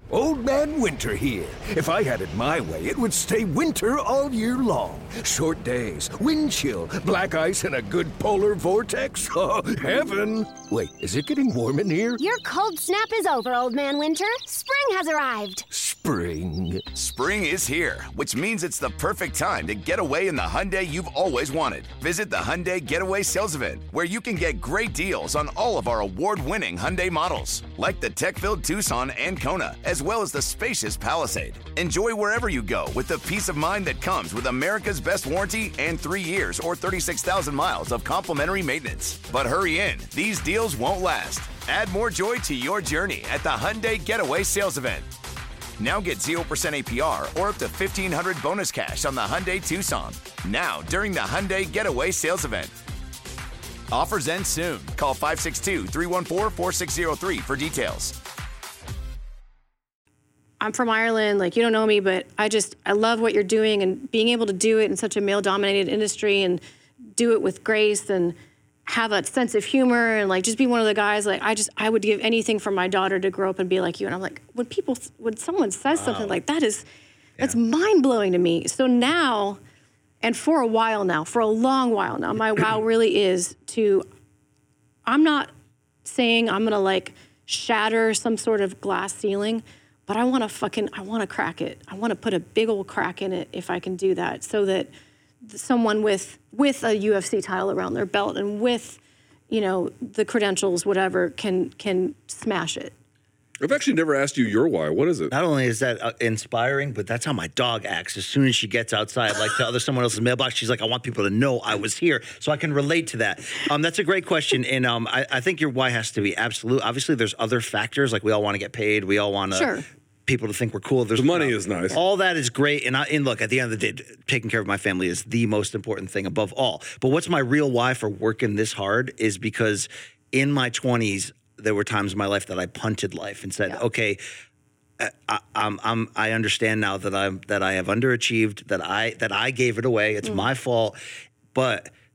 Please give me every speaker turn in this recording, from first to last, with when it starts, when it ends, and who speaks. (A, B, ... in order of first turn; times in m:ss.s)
0:00.1-0:12.2 A
0:12.2-0:15.6 B
0:15.7-0:16.9 A
0:16.9-0:45.1 C
0:45.8-0:52.7 C
0:53.9-0:58.2 C
1:00.6-1:06.6 D
1:07.2-1:08.4 D
1:08.9-1:16.8 D
1:15.9-1:16.4 E
1:17.4-1:19.6 D
1:20.2-1:24.0 D
1:25.0-1:25.5 D
1:26.0-1:34.9 D
1:35.5-1:42.9 D
1:43.6-1:45.3 F
1:45.3-2:14.2 E
1:59.5-1:59.8 D
2:01.2-2:02.0 F
2:15.0-2:21.0 E
2:21.5-2:21.9 E